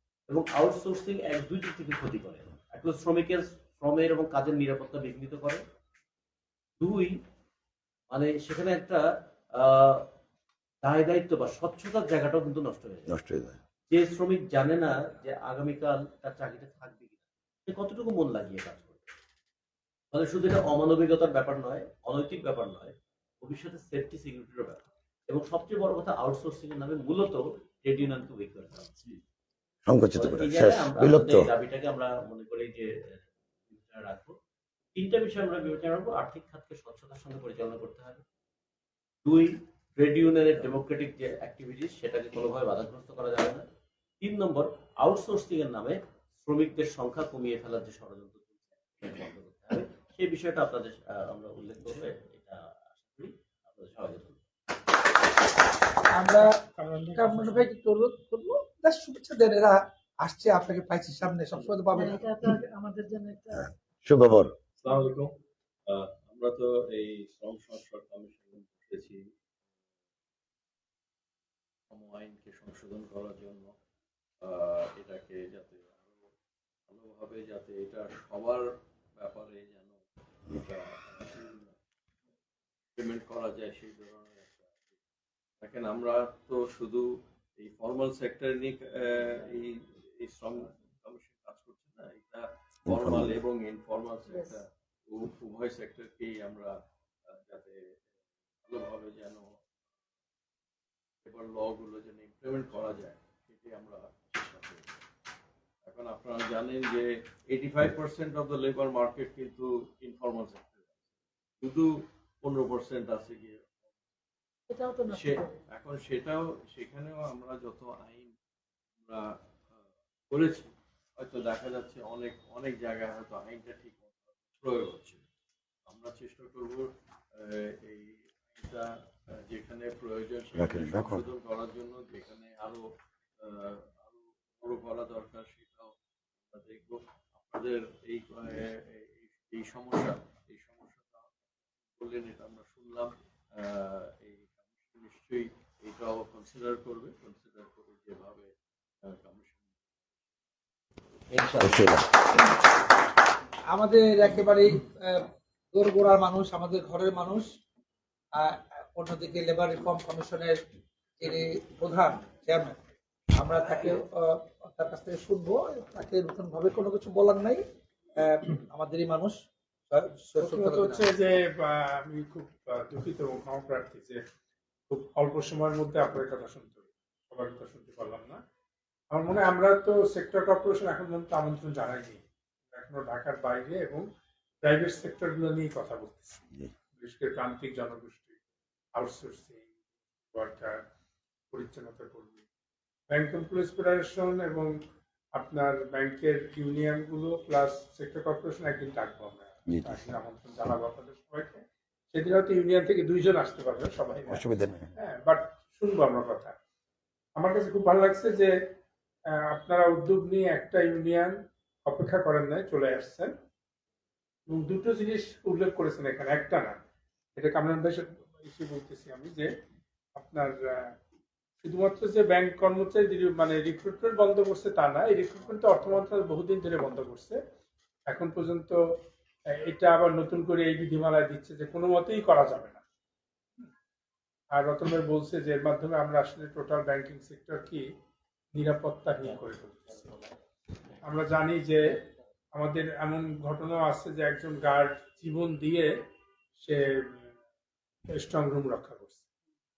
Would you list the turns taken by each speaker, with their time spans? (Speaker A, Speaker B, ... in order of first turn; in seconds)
Speaker A: 0.3-5.6, 6.8-7.2, 8.1-9.0, 9.6-10.1, 10.8-13.1, 13.9-19.0, 20.1-28.9, 30.2-34.4, 35.0-38.2, 39.2-43.6, 44.2-54.4, 151.3-151.8
Speaker B: 13.1-13.6, 29.9-31.5, 63.5-64.5, 92.9-93.3, 130.5-131.2, 151.6-152.1, 199.7-200.0, 204.3-204.9
Speaker C: 56.1-56.5, 57.1-62.6, 153.7-155.2, 155.7-157.5, 158.4-160.6, 161.2-162.8, 163.3-167.6, 168.2-169.4, 169.9-171.0
Speaker D: 56.8-57.6, 170.4-174.2, 174.9-178.4, 179.1-184.1, 184.6-186.4, 187.0-188.4, 188.9-189.6, 190.3-190.8, 191.5-192.4, 193.1-194.7, 195.3-204.4, 205.0-206.5, 207.4-208.5, 209.3-211.3, 211.9-213.3, 214.5-216.8, 217.4-219.5, 220.2-220.9, 221.6-227.4, 228.1-228.8, 229.6-232.8, 234.5-237.8, 238.5-240.1, 241.0-242.0, 242.5-245.9, 246.6-247.2, 248.2-249.2
Speaker E: 62.0-63.6, 114.7-115.5
Speaker F: 64.8-65.4, 65.9-69.3, 71.9-73.7, 74.4-76.3, 76.9-78.6, 79.2-81.7, 83.0-84.9, 85.6-96.7, 97.3-98.0, 98.6-99.6, 101.2-104.9, 105.8-111.0, 111.6-113.9, 115.0-118.3, 119.0-125.2, 125.9-132.9, 133.4-135.9, 136.5-141.3, 141.9-149.9